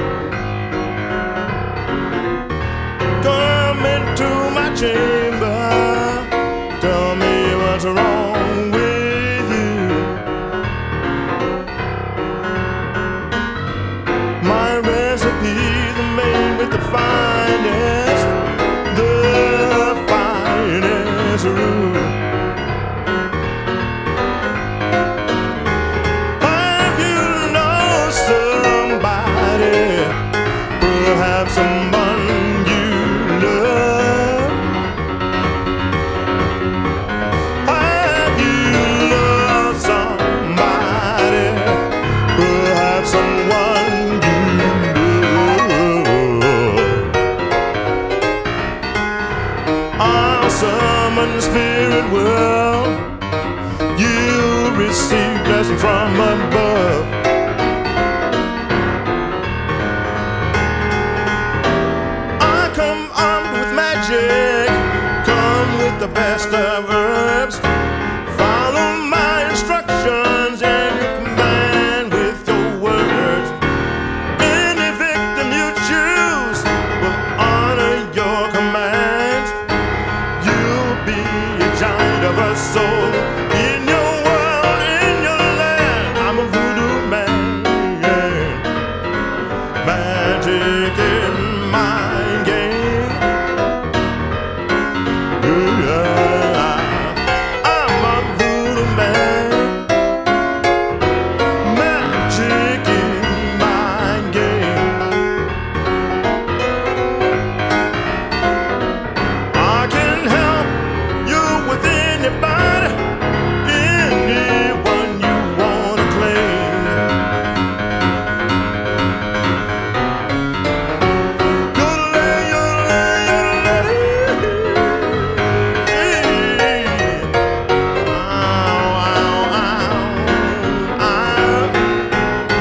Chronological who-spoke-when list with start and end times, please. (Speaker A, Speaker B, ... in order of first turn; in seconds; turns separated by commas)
Speaker A: 3.2-10.2, Speaker A: 14.4-18.3, Speaker A: 18.9-22.2, Speaker A: 26.4-30.2, Speaker A: 30.8-34.6, Speaker A: 37.6-47.1, Speaker A: 50.0-53.0, Speaker A: 53.9-57.1, Speaker A: 62.4-67.6, Speaker A: 68.2-73.6, Speaker A: 74.4-79.6, Speaker A: 80.4-88.7, Speaker A: 89.8-93.2, Speaker A: 95.4-99.8, Speaker A: 101.6-105.1, Speaker A: 109.5-113.0, Speaker A: 113.6-117.0, Speaker A: 121.7-127.3, Speaker A: 128.0-131.8